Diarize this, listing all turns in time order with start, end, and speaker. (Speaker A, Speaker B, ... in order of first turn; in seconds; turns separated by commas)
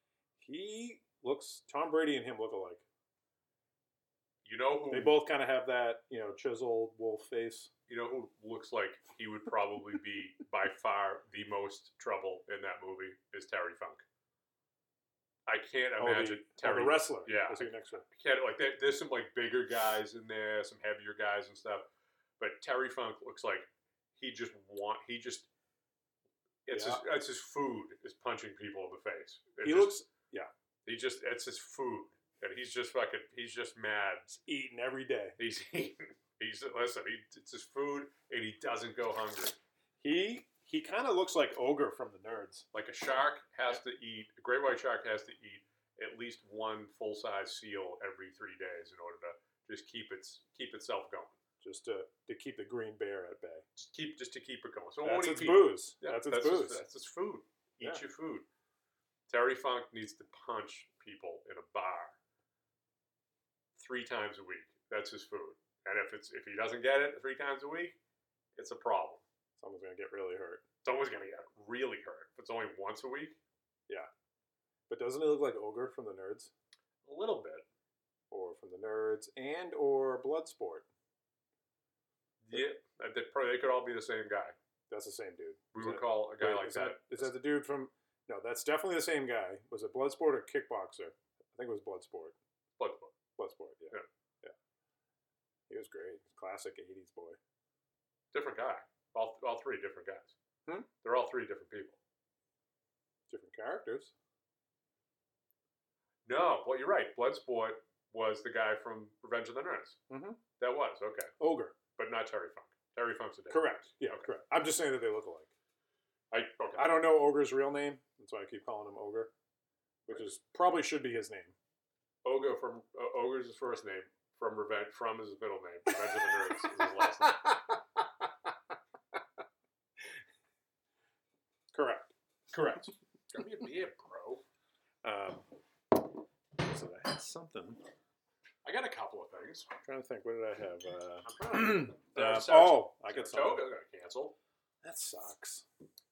Speaker A: 0.4-2.8, Speaker B: 4.4-5.2, Speaker A: 4.9-7.7, Speaker B: 7.9-14.0, Speaker B: 15.5-21.9, Speaker A: 16.0-18.0, Speaker B: 22.4-25.5, Speaker B: 26.6-29.9, Speaker A: 26.7-27.0, Speaker A: 29.6-30.5, Speaker B: 30.9-34.4, Speaker A: 34.4-35.4, Speaker B: 35.4-39.6, Speaker A: 40.0-42.6, Speaker B: 42.7-51.4, Speaker A: 51.6-53.6, Speaker B: 53.8-58.5, Speaker A: 55.0-56.8, Speaker B: 59.3-62.1, Speaker B: 63.8-68.0, Speaker B: 68.5-69.2, Speaker A: 69.6-70.6, Speaker B: 70.8-73.4, Speaker A: 74.9-76.5, Speaker B: 77.0-77.6, Speaker A: 78.3-80.9, Speaker B: 82.4-84.5, Speaker A: 84.9-92.3, Speaker B: 85.7-87.3, Speaker B: 92.8-93.1, Speaker A: 93.4-94.5, Speaker A: 95.7-97.4, Speaker B: 98.3-100.3, Speaker B: 101.0-102.0, Speaker A: 103.3-104.1, Speaker B: 106.2-110.0, Speaker A: 110.1-110.4, Speaker B: 110.6-111.3, Speaker A: 111.4-111.8, Speaker B: 112.0-114.2, Speaker A: 113.5-115.5, Speaker B: 116.3-116.8, Speaker A: 116.8-119.3, Speaker A: 120.1-121.5, Speaker B: 122.2-127.5, Speaker A: 125.9-128.3, Speaker A: 131.7-132.8, Speaker B: 132.5-134.4, Speaker A: 135.0-135.4, Speaker A: 136.6-137.8, Speaker B: 138.6-139.7, Speaker A: 139.8-143.6, Speaker B: 141.2-144.3, Speaker A: 144.8-145.6